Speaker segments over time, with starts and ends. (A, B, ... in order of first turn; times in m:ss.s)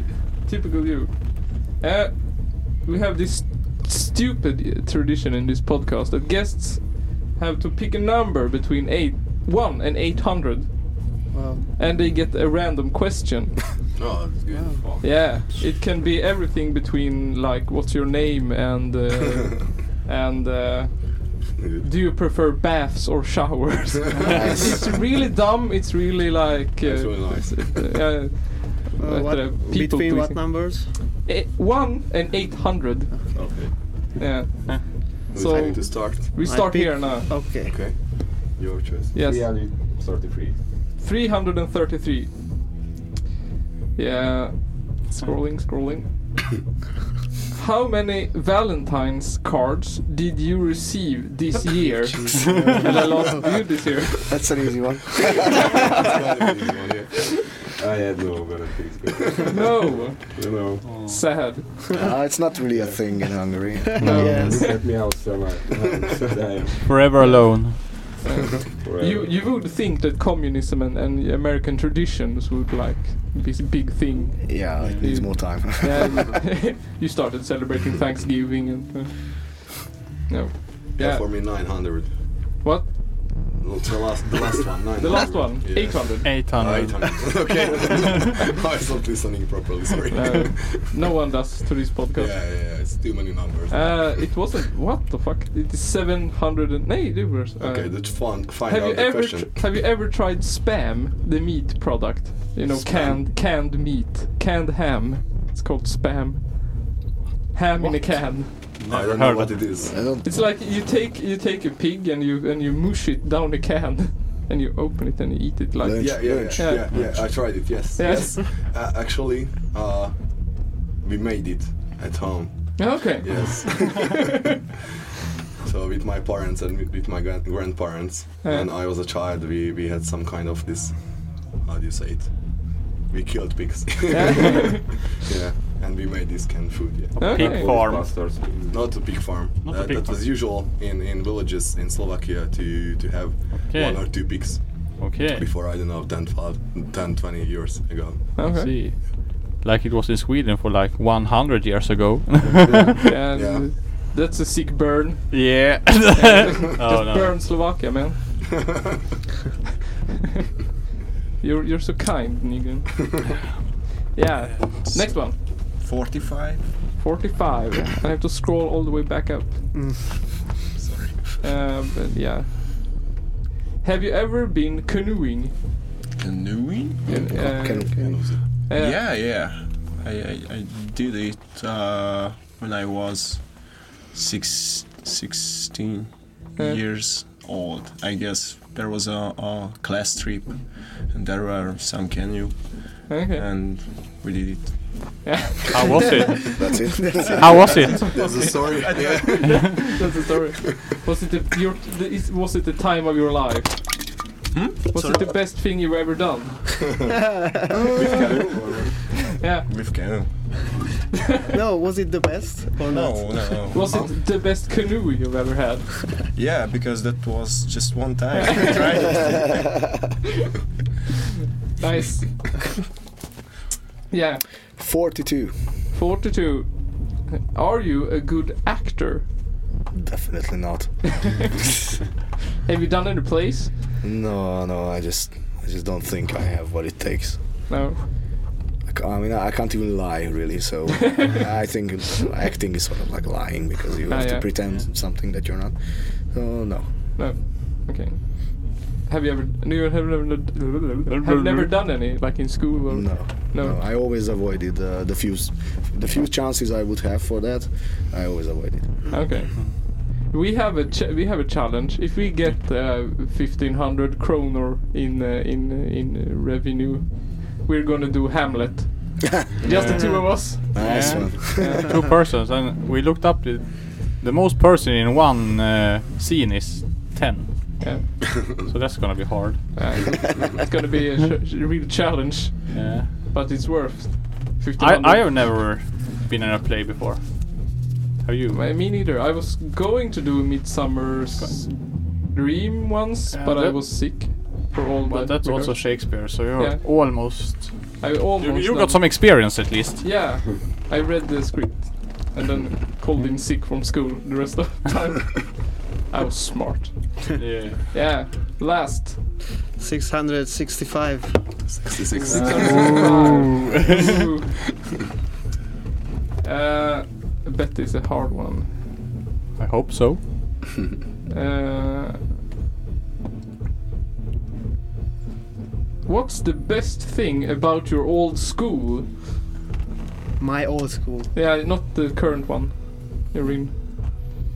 0:00.4-0:13.7 A
0:11.3-0:11.7 B
0:14.0-0:15.2 C
0:14.5-0:14.8 B
0:15.0-0:37.3 A
0:21.6-0:21.9 C
0:24.2-0:24.5 D
0:24.3-0:24.8 E
0:26.8-0:28.0 C
0:29.0-0:30.9 B
0:33.4-0:33.7 C
0:35.3-0:36.4 C
0:36.4-0:37.8 B
0:37.6-0:39.2 C
0:39.1-0:39.5 A
0:39.2-0:40.6 F
0:41.0-0:42.3 A
0:44.0-0:46.1 A
0:47.5-0:54.3 A
0:52.0-0:53.6 B
0:54.3-0:55.6 E
0:55.5-0:57.4 C
0:57.3-1:01.0 F
0:59.2-0:59.5 C
0:59.5-1:01.7 A
1:00.8-1:01.3 D
1:02.0-1:04.6 E
1:02.7-1:03.0 F
1:03.9-1:04.8 B
1:04.1-1:04.7 A
1:04.2-1:07.0 F
1:06.8-1:08.1 D
1:07.2-1:19.8 A
1:08.8-1:09.5 F
1:14.4-1:16.3 E
1:14.8-1:15.0 D
1:20.3-1:21.9 A
1:21.0-1:22.4 C
1:22.6-1:23.2 A
1:23.6-1:30.9 C
1:25.0-1:26.4 A
1:26.2-1:27.5 D
1:30.1-1:32.4 A
1:32.1-1:34.4 C
1:33.7-1:48.5 A
1:37.6-1:39.8 C
1:42.6-1:43.3 C
1:47.8-1:49.8 D
1:48.8-1:50.0 C
1:49.9-1:50.3 E
1:50.2-1:58.4 A
1:55.8-1:57.3 E
1:56.0-2:04.3 C
2:02.8-2:04.2 A
2:05.6-2:28.4 C
2:08.4-2:08.7 A
2:14.1-2:14.9 A
2:17.2-2:17.7 A
2:17.2-2:18.1 D
2:17.2-2:19.0 F
2:19.6-2:20.4 D
2:23.7-2:25.5 D
2:28.4-2:28.7 A
2:28.4-2:33.1 D
2:33.0-2:38.6 A
2:33.3-2:33.7 C
2:35.3-2:37.7 D
2:41.4-2:43.2 A
2:44.1-2:45.4 A
2:44.7-2:46.9 G
2:47.0-2:49.6 A
2:49.7-2:50.2 B
2:50.8-2:51.2 G
2:51.4-2:53.0 A
2:53.8-2:55.5 A
2:56.2-2:57.7 G
2:57.1-2:59.0 A
2:57.3-2:58.4 E
2:57.9-2:58.2 B
2:58.0-2:58.4 C
2:58.7-3:15.2 G
3:13.1-3:13.5 A
3:15.2-3:16.3 A
3:15.7-3:16.8 D
3:16.6-3:17.9 E
3:17.0-3:17.6 B
3:17.4-3:18.1 D
3:17.6-3:24.3 A
3:18.1-3:19.9 C
3:24.5-3:25.2 G
3:24.9-3:27.0 A
3:25.0-3:25.2 B
3:26.8-3:27.1 C
3:27.2-3:27.7 B
3:27.7-3:30.8 G
3:29.4-3:30.3 A
3:31.5-3:33.7 B
3:32.8-3:34.1 G
3:33.7-3:36.1 A
3:36.3-3:39.6 G
3:38.5-3:39.3 A
3:41.8-3:42.6 A
3:44.1-3:44.5 A
3:44.7-3:45.8 E
3:45.9-3:49.3 A
3:49.9-3:51.6 E
3:52.7-3:53.7 A
3:54.0-3:57.7 E
3:57.7-3:58.0 A
3:58.8-4:07.2 E
4:04.1-4:04.5 A
4:07.2-4:13.8 A
4:11.1-4:11.8 D
4:12.9-4:19.4 E
4:19.1-4:32.0 A
4:29.6-4:39.8 D
4:29.7-4:30.0 C
4:30.7-4:31.9 E
4:37.8-4:38.1 A
4:39.8-4:45.3 A
4:42.7-4:43.1 D
4:44.8-4:48.6 D
4:48.5-4:57.3 A
4:53.3-4:54.4 D
4:55.0-5:00.1 D
4:58.0-4:59.5 A
5:00.0-5:09.2 A
5:07.4-5:07.9 D
5:09.8-5:13.5 B
5:11.6-5:13.0 C
5:12.2-5:14.5 A
5:12.3-5:14.1 D
5:16.4-5:18.8 A
5:19.6-5:20.2 D
5:21.3-5:22.3 A
5:26.0-5:29.1 A
5:30.4-5:31.3 B
5:31.3-5:33.7 A